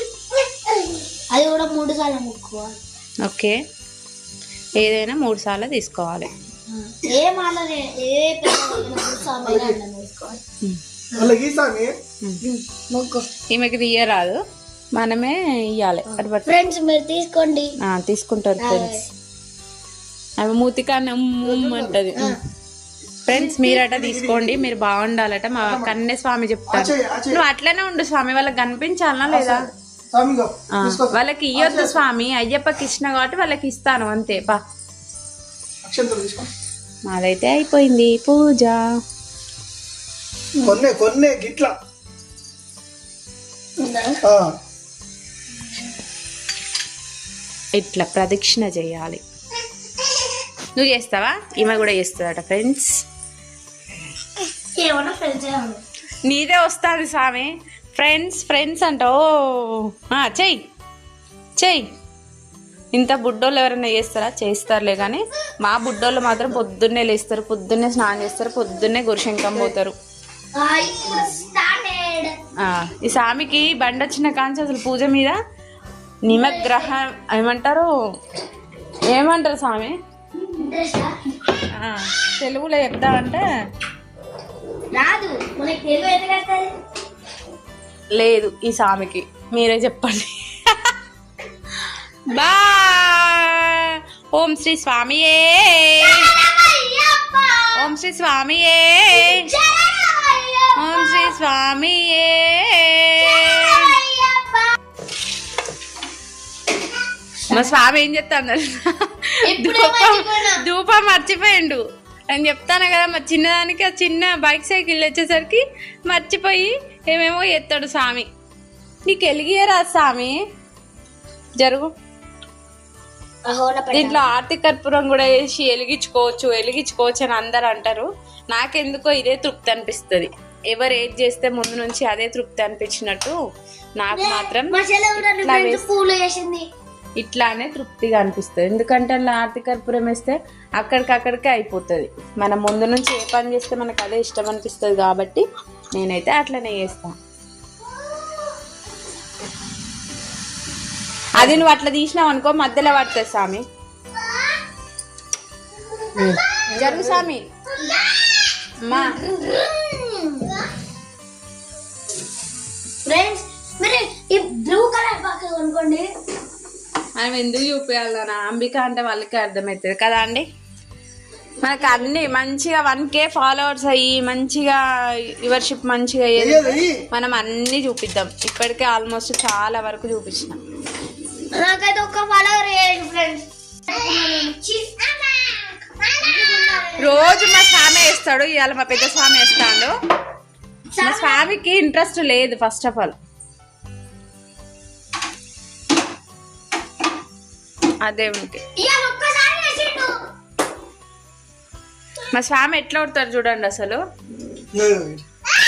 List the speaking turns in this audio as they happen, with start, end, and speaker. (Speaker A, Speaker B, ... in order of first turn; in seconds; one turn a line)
Speaker A: 0.7-2.8
Speaker B: 3.2-3.6
Speaker B: 4.8-6.3
Speaker A: 6.7-10.4
Speaker C: 9.4-9.8
Speaker C: 11.1-11.9
Speaker A: 12.4-13.3
Speaker B: 13.5-14.4
Speaker B: 14.9-16.5
Speaker A: 16.1-17.7
Speaker B: 17.8-19.0
Speaker A: 18.6-19.0
Speaker B: 20.4-22.4
Speaker C: 21.4-22.1
Speaker C: 23.2-24.8
Speaker B: 23.3-29.6
Speaker C: 25.6-26.0
Speaker C: 26.7-27.4
Speaker C: 29.2-32.0
Speaker B: 30.8-34.6
Speaker C: 35.8-36.5
Speaker B: 37.1-38.8
Speaker C: 40.6-41.7
Speaker A: 43.8-44.2
Speaker C: 44.2-44.5
Speaker B: 47.7-49.2
Speaker B: 50.8-52.9
Speaker A: 54.7-55.8
Speaker B: 56.2-60.6
Speaker B: 61.6-61.8
Speaker B: 62.9-69.9
Speaker A: 70.6-72.3
Speaker B: 72.6-75.4
Speaker B: 76.2-77.9
Speaker A: 76.3-76.9
Speaker B: 79.1-80.0
Speaker A: 80.5-81.1
Speaker B: 81.7-83.4
Speaker A: 84.9-86.7
Speaker B: 88.1-90.9
Speaker B: 92.3-96.3
Speaker A: 96.0-97.9
Speaker B: 97.8-99.5
Speaker A: 99.1-101.3
Speaker B: 100.8-103.9
Speaker A: 103.2-104.8
Speaker A: 107.5-107.7
Speaker B: 107.5-118.3
Speaker A: 109.4-110.6
Speaker B: 119.0-120.4
Speaker B: 121.6-121.9
Speaker A: 123.5-124.3
Speaker B: 123.9-133.4
Speaker B: 134.0-135.9
Speaker A: 134.1-136.6
Speaker B: 137.2-147.1
Speaker B: 151.4-153.6
Speaker C: 151.4-151.6
Speaker C: 156.1-157.3
Speaker A: 156.2-156.6
Speaker B: 156.7-157.4
Speaker A: 157.8-160.7
Speaker B: 158.8-159.2
Speaker A: 163.1-166.1
Speaker B: 167.2-170.4
Speaker B: 171.6-174.8
Speaker B: 175.4-180.6
Speaker C: 176.3-177.0
Speaker A: 181.5-187.4
Speaker B: 187.0-189.9
Speaker A: 190.9-191.4
Speaker B: 191.0-193.1
Speaker B: 198.0-198.6
Speaker A: 198.8-200.2
Speaker B: 202.3-204.0
Speaker C: 204.7-205.2